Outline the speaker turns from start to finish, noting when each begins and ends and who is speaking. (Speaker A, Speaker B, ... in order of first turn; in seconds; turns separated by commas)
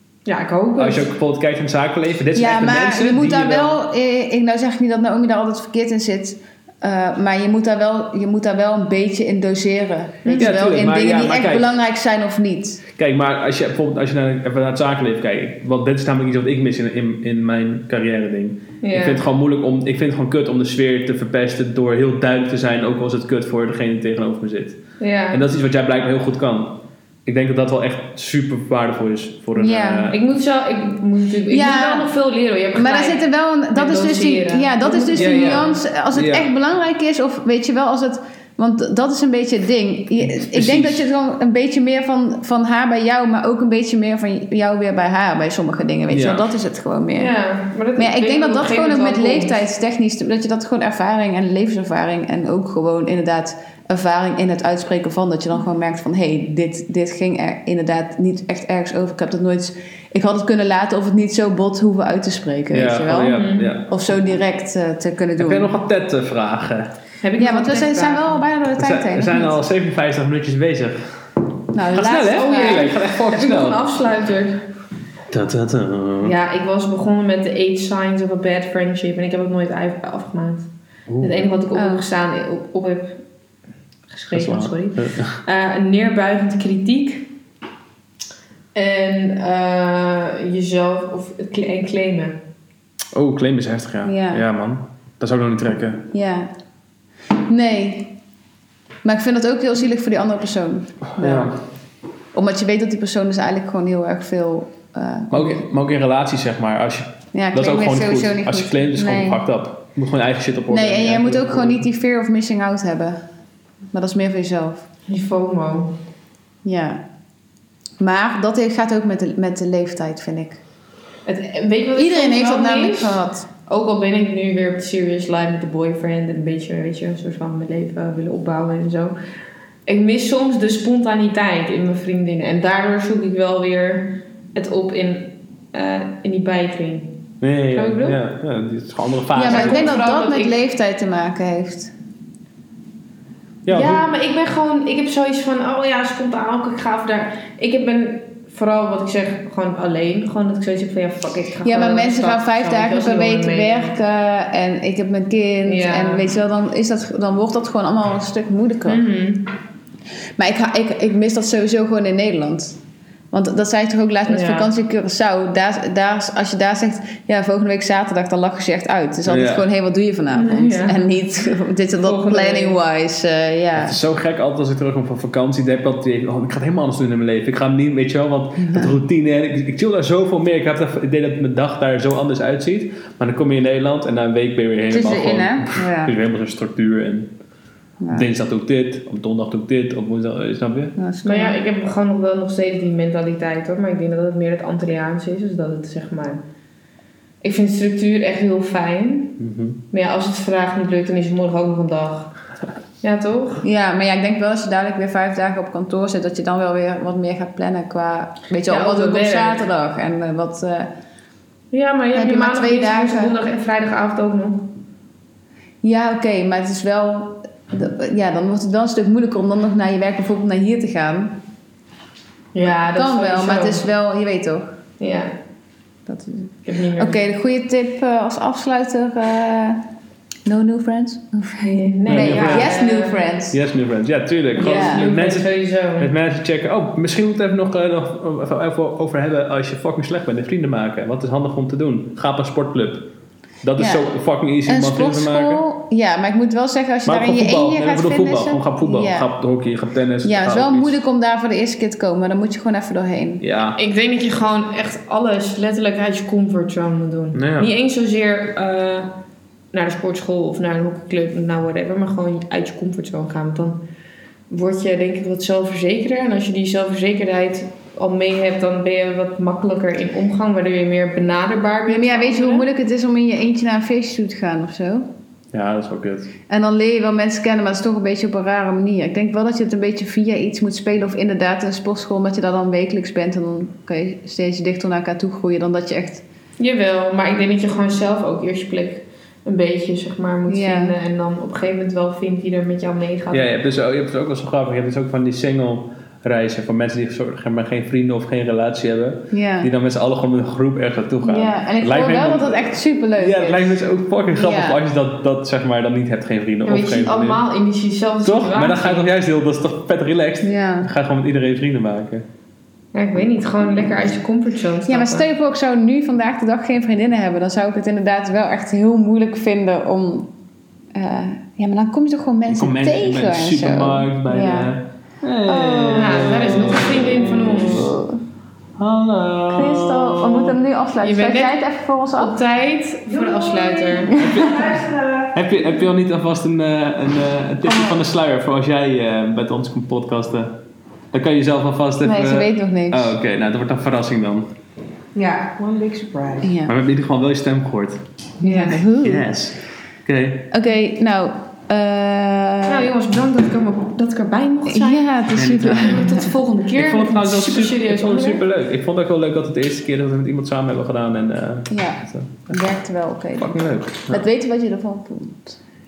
Speaker A: 0.3-1.1, Speaker B: 0.8-3.8, Speaker C: 2.4-12.8, Speaker A: 10.2-10.5, Speaker B: 10.3-11.7, Speaker B: 13.0-24.8, Speaker A: 18.8-19.2, Speaker A: 25.0-25.4, Speaker B: 25.3-30.2, Speaker C: 29.6-30.1, Speaker A: 30.1-35.8, Speaker C: 31.5-32.1, Speaker C: 32.7-47.3, Speaker B: 35.1-36.5, Speaker B: 40.2-41.1, Speaker B: 46.1-46.4, Speaker A: 47.2-49.6, Speaker C: 48.0-65.7, Speaker B: 62.7-63.9, Speaker A: 63.2-63.7, Speaker B: 65.4-66.9, Speaker A: 67.2-68.5, Speaker C: 67.4-69.6, Speaker B: 68.8-71.2, Speaker C: 71.7-72.9, Speaker B: 71.8-73.8, Speaker A: 72.2-74.6, Speaker B: 75.3-76.4, Speaker A: 76.2-80.7, Speaker B: 81.1-81.5, Speaker A: 81.2-83.2, Speaker C: 81.7-82.0, Speaker A: 84.1-87.3, Speaker B: 84.3-85.4, Speaker A: 88.8-92.4, Speaker B: 93.1-96.0, Speaker C: 94.0-94.4, Speaker C: 96.1-96.5, Speaker C: 97.4-98.1, Speaker C: 99.0-101.6, Speaker B: 101.2-101.5, Speaker C: 102.3-105.6, Speaker B: 105.3-111.8, Speaker C: 107.3-109.4, Speaker C: 110.7-113.2, Speaker C: 113.9-114.8, Speaker A: 115.1-115.9, Speaker C: 116.6-117.0, Speaker C: 118.0-120.6, Speaker A: 121.3-129.2, Speaker C: 122.0-123.5, Speaker A: 129.9-137.2, Speaker B: 137.4-140.0, Speaker A: 137.7-138.2, Speaker C: 139.3-141.9, Speaker A: 139.4-140.6, Speaker B: 143.7-144.1, Speaker A: 143.7-153.9, Speaker C: 151.7-159.0, Speaker A: 155.7-156.3, Speaker A: 158.9-159.5, Speaker C: 160.4-162.8, Speaker C: 163.3-174.0, Speaker A: 164.3-164.7, Speaker B: 169.3-169.7, Speaker A: 170.3-171.1, Speaker A: 172.0-172.8, Speaker B: 173.7-187.3, Speaker C: 178.6-178.9, Speaker C: 184.9-186.2, Speaker C: 188.0-188.3, Speaker B: 188.1-190.9, Speaker C: 191.0-191.6, Speaker A: 191.2-196.4, Speaker A: 197.4-199.4, Speaker B: 199.4-199.8, Speaker A: 199.9-202.3, Speaker A: 203.0-203.6, Speaker C: 203.6-210.9, Speaker A: 208.7-209.7, Speaker A: 211.7-214.7, Speaker C: 212.2-213.3, Speaker C: 215.8-221.4, Speaker A: 222.5-223.8, Speaker C: 222.9-224.7, Speaker A: 225.0-225.3, Speaker C: 226.1-229.8, Speaker A: 226.7-227.2, Speaker C: 230.5-233.6, Speaker A: 231.6-233.3, Speaker B: 232.1-232.7, Speaker B: 233.5-243.1, Speaker A: 234.6-236.1, Speaker C: 234.6-235.1, Speaker B: 243.6-245.6, Speaker C: 243.8-244.1, Speaker C: 244.7-249.3, Speaker B: 247.1-251.0, Speaker C: 250.2-253.4, Speaker B: 253.4-253.8, Speaker A: 253.8-259.1, Speaker B: 257.3-257.7, Speaker A: 259.7-263.8, Speaker A: 264.5-272.7, Speaker C: 271.9-275.1, Speaker B: 275.5-276.3, Speaker C: 276.5-286.2, Speaker A: 286.6-293.5, Speaker C: 290.5-290.9, Speaker B: 293.3-307.4, Speaker C: 299.3-299.7, Speaker C: 301.2-303.8, Speaker C: 304.3-304.8, Speaker A: 306.7-309.1, Speaker B: 308.2-312.3, Speaker C: 310.4-310.9, Speaker A: 312.9-315.3, Speaker C: 314.9-320.3, Speaker C: 320.9-324.7, Speaker B: 322.5-328.0, Speaker C: 325.4-328.2, Speaker A: 325.9-327.9, Speaker B: 328.8-330.4, Speaker C: 329.5-332.4, Speaker A: 330.2-331.7, Speaker A: 332.2-334.8, Speaker C: 333.1-335.3, Speaker B: 334.2-340.6, Speaker B: 341.1-344.5, Speaker C: 342.0-343.1, Speaker A: 345.1-346.5, Speaker C: 346.4-346.7, Speaker B: 346.7-348.0, Speaker C: 348.4-349.3, Speaker A: 348.4-348.8, Speaker B: 349.0-350.5, Speaker C: 350.5-352.9, Speaker A: 352.7-355.1, Speaker C: 354.7-356.3, Speaker B: 355.3-356.2, Speaker A: 355.8-358.4, Speaker B: 356.8-362.6, Speaker C: 361.7-365.6, Speaker B: 363.4-364.2